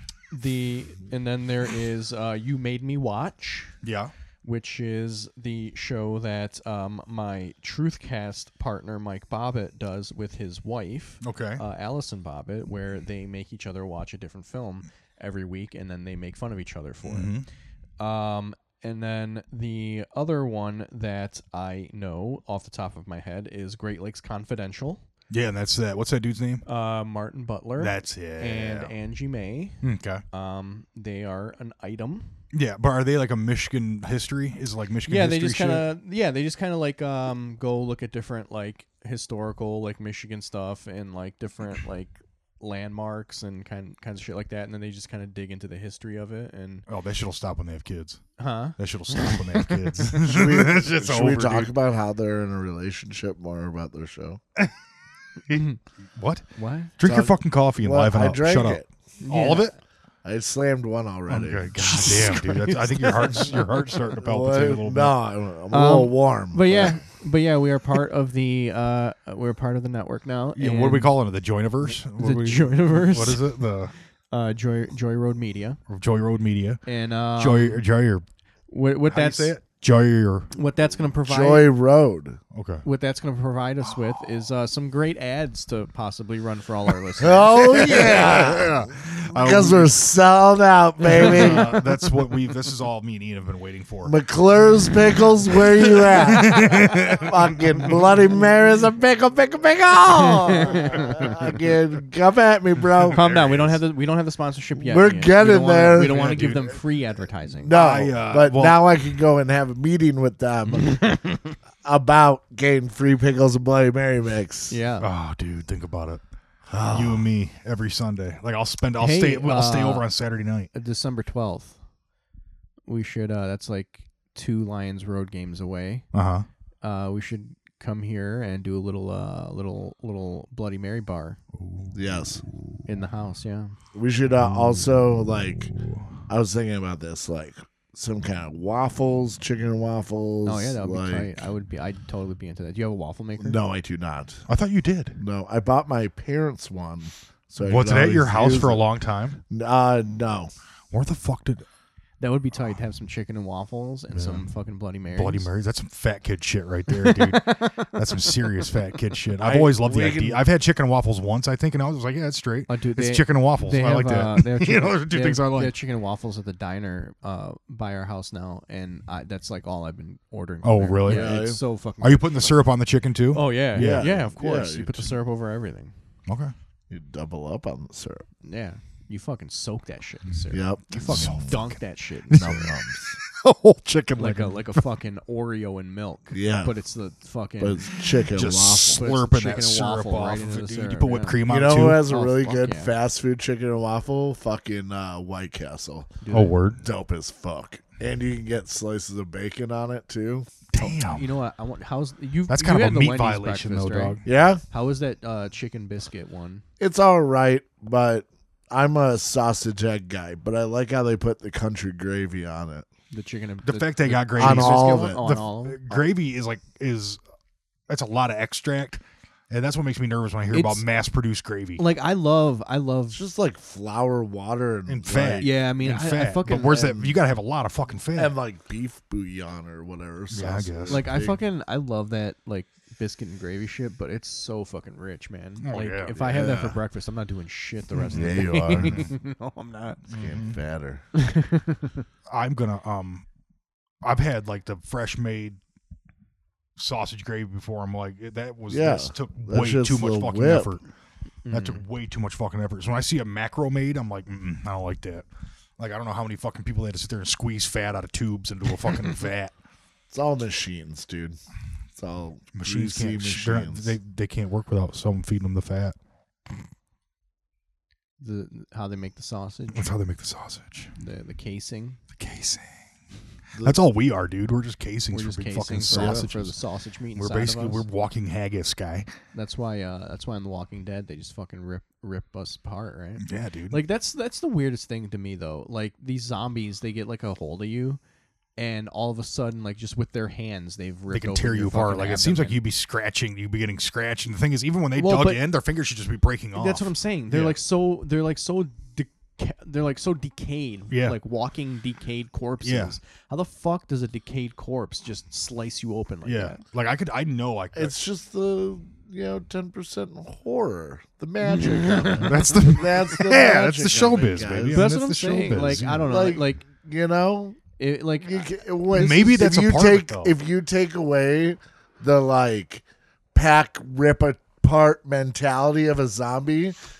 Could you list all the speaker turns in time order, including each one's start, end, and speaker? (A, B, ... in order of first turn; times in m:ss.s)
0:00.3-0:03.7 A
0:03.8-0:04.1 B
0:04.4-0:17.3 A
0:11.2-0:11.6 B
0:17.0-0:17.5 B
0:18.0-0:25.0 A
0:25.3-0:26.6 B
0:26.6-0:29.8 A
0:27.8-0:28.9 B
0:29.8-0:30.2 B
0:30.3-0:32.3 A
0:32.5-0:35.9 B
0:35.1-0:46.8 A
0:46.9-0:51.7 B
0:48.4-0:50.2 A
0:50.2-0:54.4 C
0:55.5-0:55.8 A
0:56.2-0:56.4 B
0:56.6-0:56.9 A
0:57.0-0:59.7 B
0:57.0-0:58.9 C
0:59.2-0:59.8 A
1:00.2-1:03.6 C
1:01.3-1:05.1 B
1:03.2-1:03.6 A
1:04.2-1:07.0 C
1:05.7-1:11.2 A
1:10.6-1:13.9 B
1:11.8-1:13.5 A
1:14.3-1:15.8 A
1:15.9-1:16.8 B
1:16.8-1:17.8 A
1:17.4-1:18.2 B
1:18.7-1:19.5 A
1:19.1-1:20.5 B
1:20.5-1:21.7 A
1:21.2-1:22.4 C
1:22.5-1:22.8 B
1:22.8-1:28.1 A
1:23.8-1:24.2 B
1:27.2-1:31.8 C
1:27.7-1:30.0 B
1:31.1-1:34.1 B
1:34.0-1:43.2 C
1:36.0-1:37.9 B
1:40.4-1:41.3 A
1:43.1-1:43.8 B
1:43.1-1:47.7 A
1:44.8-1:46.6 C
1:46.0-1:46.7 B
1:47.6-1:51.0 C
1:47.7-1:48.8 B
1:50.8-1:51.5 A
1:51.8-1:54.8 C
1:54.7-1:55.1 A
1:55.0-1:56.2 B
1:56.7-1:57.2 C
1:56.8-2:00.7 B
1:59.0-2:00.1 A
2:00.7-2:01.8 A
2:02.9-2:06.0 A
2:06.1-2:06.5 B
2:06.8-2:11.4 A
2:11.6-2:12.0 B
2:11.9-2:12.4 C
2:12.9-2:13.8 A
2:13.9-2:15.7 C
2:14.4-2:16.1 B
2:16.3-2:21.4 C
2:20.4-2:23.6 A
2:23.4-2:24.4 C
2:24.5-2:25.2 B
2:25.2-2:28.8 C
2:27.6-2:29.4 B
2:29.5-2:30.5 C
2:30.9-2:31.6 B
2:32.2-2:35.5 A
2:34.1-2:34.5 B
2:35.1-2:45.7 B
2:36.9-2:38.7 A
2:39.4-2:40.4 C
2:42.7-2:52.6 A
2:50.6-2:51.5 B
2:51.0-2:51.6 C
2:52.0-2:54.1 B
2:53.3-2:55.9 A
2:53.8-2:55.1 C
2:56.3-2:56.5 B
2:56.9-2:58.2 C
2:58.4-3:02.6 A
3:00.5-3:01.5 C
3:00.9-3:01.8 B
3:02.3-3:02.7 B
3:02.3-3:04.5 C
3:04.2-3:07.8 A
3:06.3-3:06.7 C
3:07.6-3:09.1 C
3:08.0-3:12.0 B
3:09.0-3:12.9 A
3:11.5-3:16.1 C
3:16.2-3:16.6 A
3:16.3-3:16.8 B
3:16.8-3:20.6 C
3:20.7-3:21.2 B
3:20.8-3:26.6 A
3:22.5-3:24.2 B
3:24.2-3:24.6 C
3:26.8-3:32.8 C
3:33.1-3:36.0 A
3:33.6-3:37.2 B
3:34.4-3:35.2 C
3:37.9-3:41.8 B
3:40.5-3:40.8 A
3:41.8-3:43.2 A
3:43.1-3:45.5 C
3:44.9-3:48.4 B
3:45.4-3:47.0 A
3:46.6-3:47.1 C
3:48.2-3:51.4 C
3:50.3-3:51.1 B
3:50.9-4:00.0 A
3:55.6-3:56.4 B
3:56.2-3:56.8 C
3:57.9-3:59.1 B
3:58.1-3:59.1 C
4:00.1-4:00.6 B
4:00.2-4:01.0 C
4:01.1-4:02.0 A
4:02.3-4:03.2 B
4:04.0-4:05.6 B
4:06.8-4:10.8 B
4:08.7-4:10.7 C
4:11.4-4:11.8 A
4:11.5-4:15.3 B
4:15.8-4:19.5 B
4:20.1-4:21.4 C
4:22.0-4:23.9 C
4:22.5-4:26.0 B
4:28.2-4:29.9 A
4:29.7-4:30.9 B
4:31.0-4:32.0 A
4:32.2-4:32.8 B
4:33.6-4:36.6 B
4:35.1-4:37.8 A
4:35.9-4:36.2 C
4:37.1-4:39.1 B
4:39.3-4:48.0 A
4:43.2-4:43.8 B
4:48.6-4:52.6 A
4:51.1-4:57.6 B
4:55.0-4:55.4 A
4:56.5-5:06.6 A
5:00.9-5:01.2 B
5:02.6-5:02.9 B
5:06.2-5:08.0 B
5:07.7-5:14.9 C
5:11.5-5:12.7 A
5:12.2-5:16.2 B
5:14.7-5:16.6 A
5:15.6-5:17.6 C
5:17.8-5:18.5 A
5:18.2-5:22.8 C
5:18.9-5:20.3 B
5:23.3-5:26.8 C